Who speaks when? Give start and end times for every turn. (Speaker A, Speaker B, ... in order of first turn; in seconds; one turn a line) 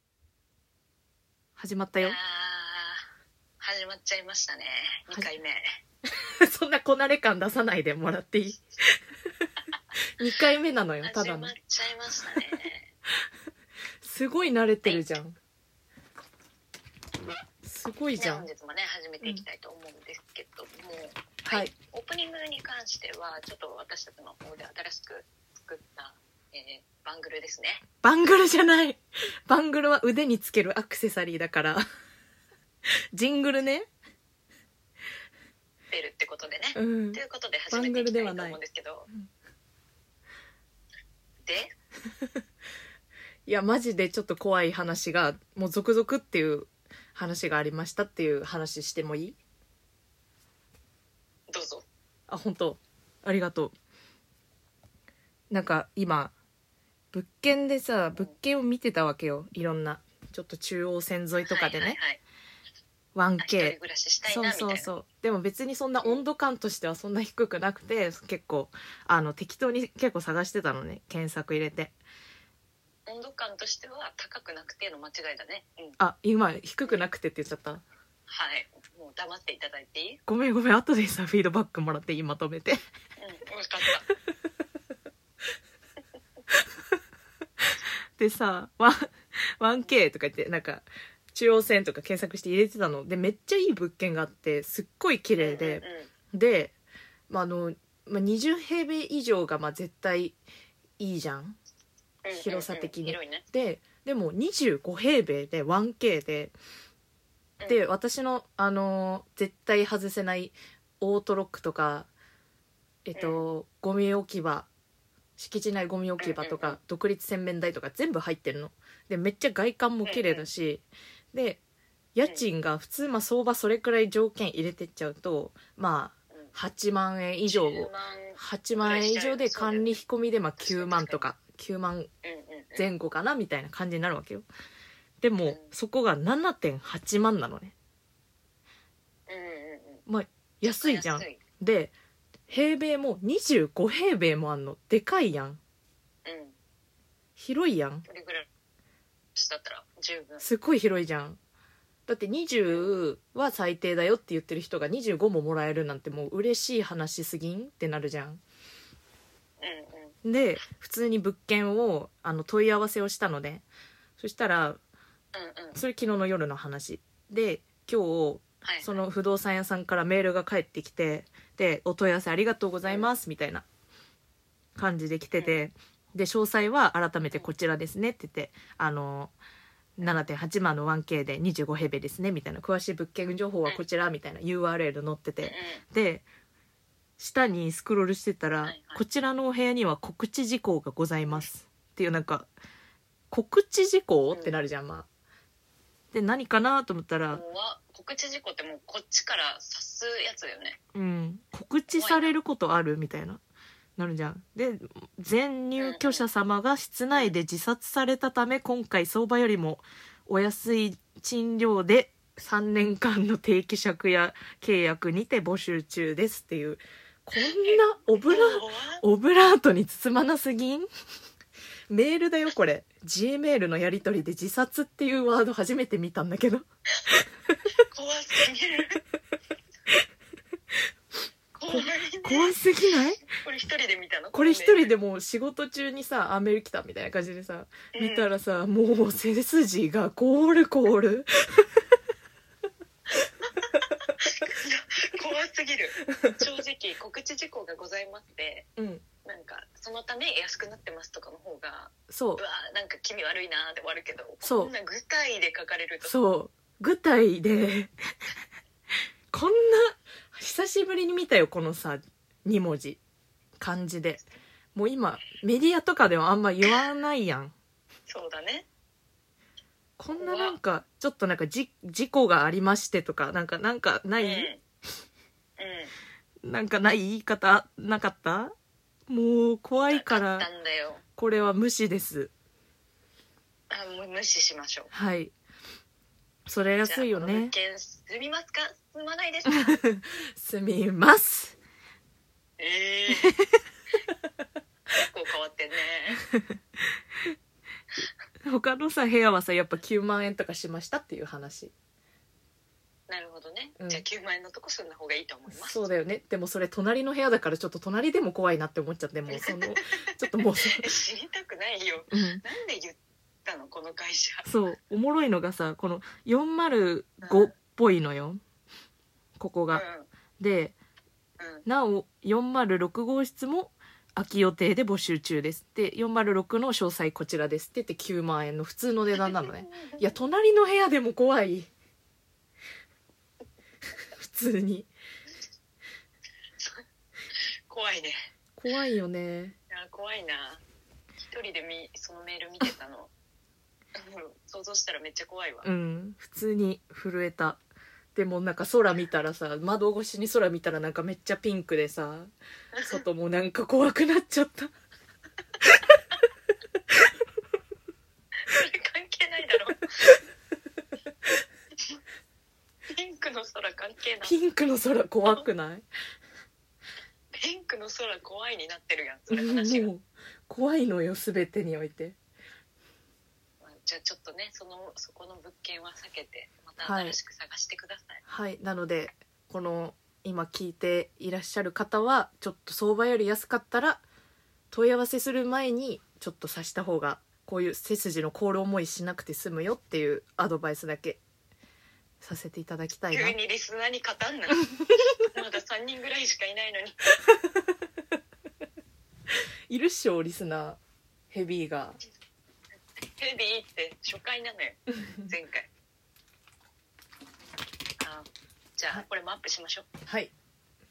Speaker A: 1.6-2.2
Speaker B: 2.0-3.0
Speaker B: 3.6-5.8
Speaker A: 6.1-9.0
Speaker A: 10.2-11.5
Speaker B: 11.0-12.9
Speaker A: 14.0-15.4
Speaker A: 17.6-18.5
Speaker B: 18.2-27.8
Speaker A: 21.5-21.7
Speaker A: 28.0-31.8
Speaker A: 33.1-33.9
Speaker B: 35.9-39.1
Speaker A: 36.7-38.6
Speaker B: 41.4-41.7
Speaker A: 43.5-49.4
Speaker B: 51.5-51.8
Speaker A: 52.3-53.7
Speaker A: 55.5-56.3
Speaker A: 57.1-62.0
Speaker B: 61.4-62.2
Speaker A: 63.1-72.0
Speaker B: 63.4-64.9
Speaker B: 73.1-76.0
Speaker A: 76.0-77.8
Speaker B: 78.3-80.2
Speaker A: 80.2-82.8
Speaker B: 83.2-84.0
Speaker A: 88.2-96.7
Speaker B: 95.4-96.1
Speaker A: 97.3-100.4
Speaker A: 101.0-101.6
Speaker B: 102.2-103.4
Speaker A: 102.4-106.5
Speaker B: 107.6-107.9
Speaker A: 107.7-112.1
Speaker A: 113.0-114.7
Speaker B: 113.1-113.4
Speaker A: 115.4-121.6
Speaker B: 116.2-116.8
Speaker B: 120.0-120.5
Speaker A: 122.1-132.1
Speaker B: 127.5-130.0
Speaker B: 130.6-131.3
Speaker B: 132.2-132.9
Speaker A: 132.8-134.4
Speaker A: 135.2-137.7
Speaker B: 135.4-135.7
Speaker B: 139.3-140.0
Speaker A: 140.1-141.9
Speaker B: 140.6-141.4
Speaker A: 142.5-145.6
Speaker B: 146.2-146.6
Speaker A: 147.4-148.1
Speaker B: 148.1-148.5
Speaker B: 149.3-150.4
Speaker A: 150.4-151.4
Speaker A: 152.1-158.4
Speaker B: 152.7-152.9
Speaker B: 159.6-160.2
Speaker A: 160.2-163.6
Speaker A: 164.2-164.8
Speaker B: 165.3-165.8
Speaker A: 165.7-173.6
Speaker B: 168.6-169.0
Speaker A: 174.8-179.3
Speaker B: 175.3-175.6
Speaker A: 180.0-186.2
Speaker B: 185.4-185.8
Speaker A: 187.2-192.5
Speaker B: 188.6-189.0
Speaker A: 193.3-195.1
Speaker B: 194.3-194.6
Speaker A: 196.1-197.4
Speaker B: 197.3-200.8
Speaker A: 200.9-203.4
Speaker B: 201.9-202.3
Speaker A: 204.0-220.9
Speaker B: 205.8-206.2
Speaker B: 217.4-219.0
Speaker A: 221.9-226.6
Speaker B: 227.9-229.0
Speaker B: 231.6-232.5
Speaker A: 231.7-233.2
Speaker B: 233.2-234.9
Speaker A: 234.3-241.7
Speaker B: 237.9-238.3
Speaker B: 244.2-248.7
Speaker A: 248.8-249.0
Speaker B: 249.2-256.1
Speaker A: 252.1-252.4
Speaker A: 254.4-254.7
Speaker A: 256.0-257.9
Speaker A: 259.3-263.0
Speaker A: 263.6-264.2
Speaker A: 264.7-267.5
Speaker B: 268.1-268.6
Speaker A: 270.0-274.5
Speaker B: 270.1-270.6
Speaker B: 274.2-274.6
Speaker B: 275.6-275.9
Speaker A: 276.4-278.5
Speaker A: 279.1-280.5
Speaker B: 279.8-281.0
Speaker A: 281.1-282.3
Speaker B: 283.7-284.9
Speaker A: 284.9-285.3
Speaker A: 286.5-287.5
Speaker B: 286.8-289.8
Speaker A: 289.7-291.6
Speaker B: 292.6-293.3
Speaker B: 294.9-296.2
Speaker A: 298.4-301.7
Speaker B: 303.1-305.9
Speaker A: 303.8-304.0
Speaker A: 305.5-310.9
Speaker B: 309.3-310.1
Speaker B: 310.7-314.4
Speaker A: 312.1-312.4
Speaker A: 314.4-318.4
Speaker B: 317.2-317.5
Speaker A: 319.4-319.8
Speaker B: 319.7-320.1
Speaker A: 320.4-320.8
Speaker B: 321.4-321.6
Speaker A: 321.6-331.7
Speaker B: 329.2-330.0
Speaker A: 334.1-334.9
Speaker B: 336.6-336.8
Speaker B: 337.4-338.3
Speaker A: 338.6-339.6
Speaker B: 339.7-340.6
Speaker B: 341.2-343.1
Speaker B: 343.9-345.6
Speaker A: 345.6-347.6
Speaker A: 348.1-352.3
Speaker B: 352.8-353.0
Speaker A: 352.8-354.7
Speaker B: 358.4-360.0
Speaker B: 362.9-364.4
Speaker A: 364.2-365.8
Speaker B: 367.3-369.9
Speaker A: 369.3-372.1
Speaker B: 373.6-378.2
Speaker A: 376.8-377.2
Speaker A: 378.2-384.0
Speaker A: 384.7-391.2
Speaker A: 392.2-393.3
Speaker B: 393.1-394.7
Speaker B: 395.3-397.0
Speaker A: 399.7-400.8
Speaker A: 401.3-402.0
Speaker B: 403.2-405.7
Speaker B: 408.0-409.9
Speaker A: 410.1-410.3